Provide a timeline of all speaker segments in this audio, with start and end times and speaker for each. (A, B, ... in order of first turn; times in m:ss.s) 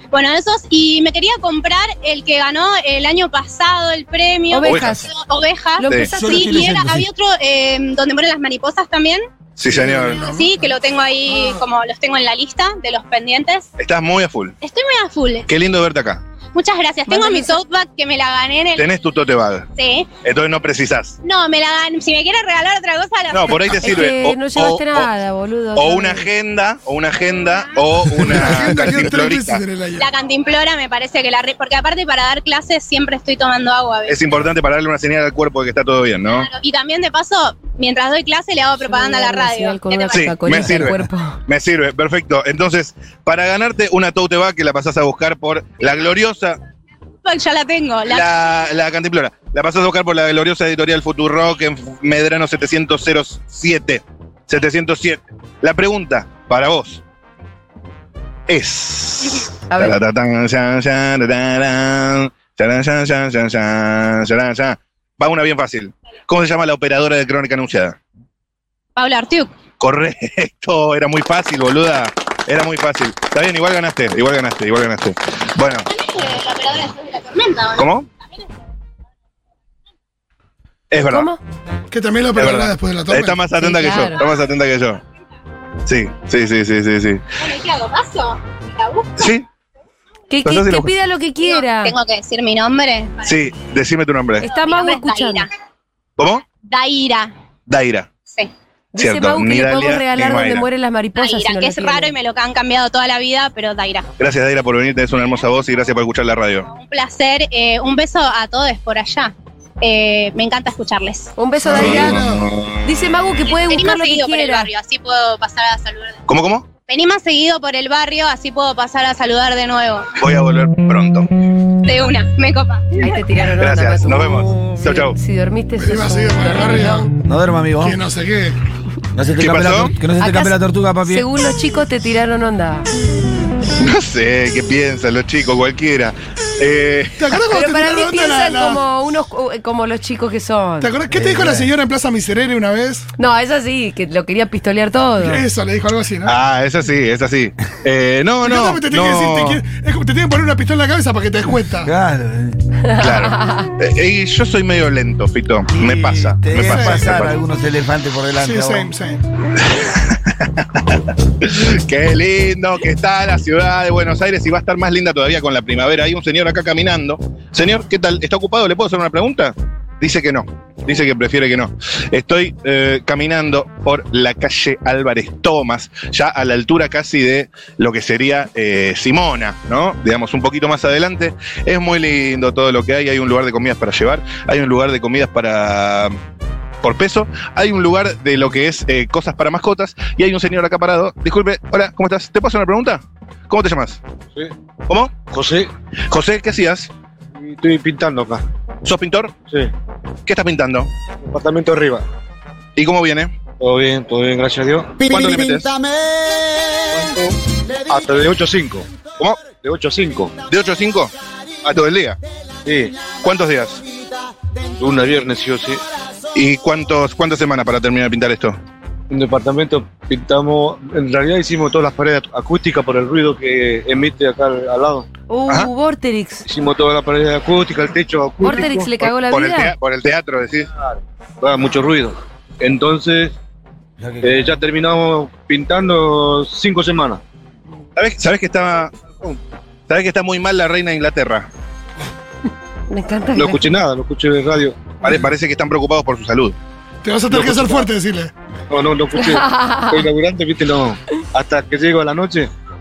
0:00.1-0:09.2 A
0:04.5-0:05.1 B
0:04.7-0:05.0 C
0:05.8-0:06.7 B
0:06.1-0:07.1 D
0:09.6-0:10.3 C
0:09.7-0:10.5 E
0:10.2-0:13.7 A
0:13.8-0:14.6 C
0:14.6-0:15.5 A
0:15.5-0:16.2 C
0:16.5-0:18.9 A
0:17.1-0:17.6 B
0:18.8-0:19.7 C
0:19.8-0:20.1 A
0:20.2-0:21.2 C
0:21.2-0:23.9 A
0:23.3-0:25.1 C
0:23.8-0:26.3 B
0:25.8-0:29.6 C
0:28.2-0:30.1 E
0:30.0-0:34.2 A
0:34.1-0:36.5 C
0:36.3-0:40.4 A
0:38.8-0:41.4 B
0:40.1-0:46.6 C
0:47.2-0:48.3 A
0:48.1-0:57.0 C
0:58.5-1:08.0 C
0:59.7-1:00.0 B
1:09.0-1:09.5 A
1:09.8-1:15.9 C
1:15.9-1:17.9 A
1:17.8-1:18.1 C
1:20.9-1:21.3 C
1:21.0-1:21.4 B
1:21.9-1:23.4 E
1:22.4-1:25.0 C
1:23.6-1:24.2 B
1:25.9-1:27.2 C
1:27.4-1:29.3 A
1:29.2-1:29.5 C
1:30.3-1:31.9 B
1:30.4-1:31.0 C
1:31.4-1:33.3 A
1:33.2-1:34.4 C
1:34.4-1:35.5 B
1:34.4-1:35.5 A
1:36.2-1:36.4 C
1:36.6-1:37.3 A
1:37.7-1:38.1 C
1:38.9-1:42.1 B
1:39.0-1:40.7 C
1:41.2-1:44.1 A
1:44.2-1:46.7 C
1:46.7-1:51.3 A
1:51.4-1:52.2 B
1:51.6-1:52.5 E
1:51.7-1:53.0 C
1:52.8-1:54.7 B
1:53.6-1:56.2 A
1:56.3-1:56.7 C
1:56.9-2:00.2 A
2:00.2-2:01.3 C
2:01.8-2:03.1 A
2:03.0-2:07.1 B
2:03.6-2:05.2 C
2:05.8-2:07.1 E
2:07.2-2:08.0 D
2:07.8-2:08.6 E
2:09.2-2:11.3 D
2:09.4-2:10.0 C
2:10.2-2:12.9 B
2:13.8-2:17.3 C
2:17.2-2:18.8 E
2:17.5-2:20.9 B
2:20.8-2:23.1 E
2:21.1-2:21.7 D
2:23.2-2:25.4 B
2:25.2-2:26.4 E
2:26.3-2:29.6 C
2:28.4-2:31.9 E
2:31.8-2:32.6 D
2:32.9-2:33.7 B
2:33.0-2:37.4 C
2:35.7-2:38.9 D
2:36.6-2:37.2 E
2:38.4-2:39.2 E
2:39.6-3:06.2 C
3:06.8-3:14.0 C
3:14.9-3:15.2 C
3:15.3-3:15.7 F
3:16.1-3:16.9 C
3:17.4-3:18.4 F
3:18.8-3:19.3 C
3:20.3-3:20.9 C
3:21.2-3:22.0 F
3:22.8-3:23.4 C
3:23.6-3:25.2 F
3:25.1-3:25.7 C
3:26.9-3:27.3 F
3:27.9-3:28.9 F
3:29.4-3:30.3 F
3:30.5-3:31.1 C
3:31.6-3:32.2 C
3:32.6-3:33.0 F
3:33.2-3:33.8 C
3:34.8-3:35.8 F
3:36.4-3:38.6 C
3:39.1-3:45.1 F
3:45.3-3:46.4 B
3:46.4-3:48.9 F
3:48.4-3:49.7 B
3:49.0-3:50.7 C
3:51.4-3:53.4 F
3:54.0-3:54.5 D
3:54.2-3:57.2 F
3:58.0-3:58.9 C
3:59.9-4:01.5 C
4:02.9-4:03.6 B
4:03.4-4:05.0 F
4:05.0-4:06.6 C
4:07.0-4:08.3 E
4:07.3-4:07.9 F
4:08.7-4:12.5 F
4:09.2-4:10.0 B